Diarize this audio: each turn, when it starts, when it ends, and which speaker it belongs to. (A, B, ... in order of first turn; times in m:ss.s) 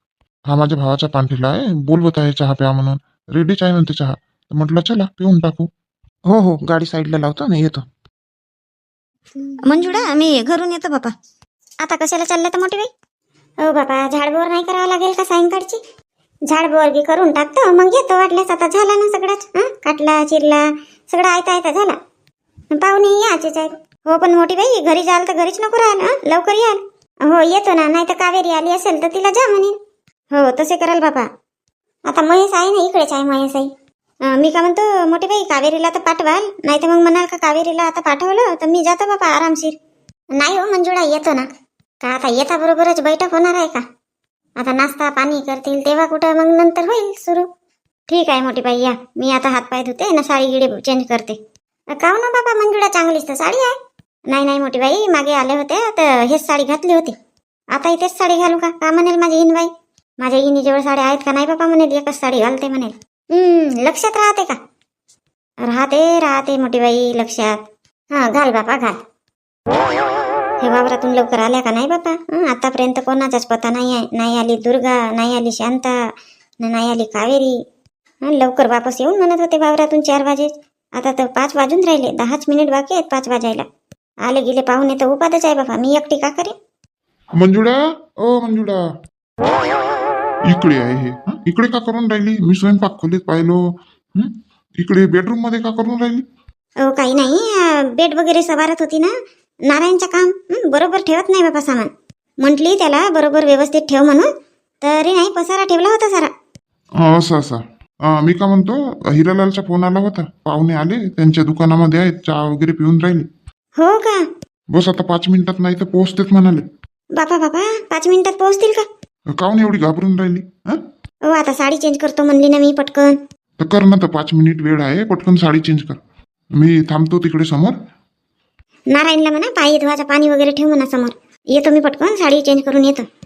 0:00.5-0:05.7 A
0:06.3-0:07.8 A
0:09.7-0:11.1 B
0:11.8-0:12.9 B
0:13.6-0:15.8 B
0:16.5-0:22.0 B
0:22.8-0:29.8 B
0:30.3-0:31.3 B
0:32.1-0:33.7 B
0:34.3-0:39.8 B
0:40.3-0:41.5 B
0:42.0-0:43.8 B
0:44.6-0:47.5 B
0:48.1-0:51.4 B
0:51.9-0:53.7 B
0:54.3-0:57.2 B
0:57.7-1:04.6 B
1:05.6-1:09.0 B
1:10.6-1:16.0 B
1:16.6-1:17.6 B
1:18.2-1:23.6 B
1:24.2-1:26.5 B
1:27.4-1:28.8 A
1:30.5-1:33.6 A
1:34.2-1:36.2 A
1:36.8-1:39.1 B
1:39.7-1:41.9 B
1:42.4-1:44.3 B
1:44.8-1:46.3 B
1:47.0-1:53.3 A
1:53.8-1:54.2 B
1:54.7-1:56.6 A
1:57.2-1:58.8 B
1:59.4-2:00.8 A
2:01.3-2:03.2 B
2:03.6-2:06.0 A
2:06.6-2:07.8 A
2:08.9-2:13.1 B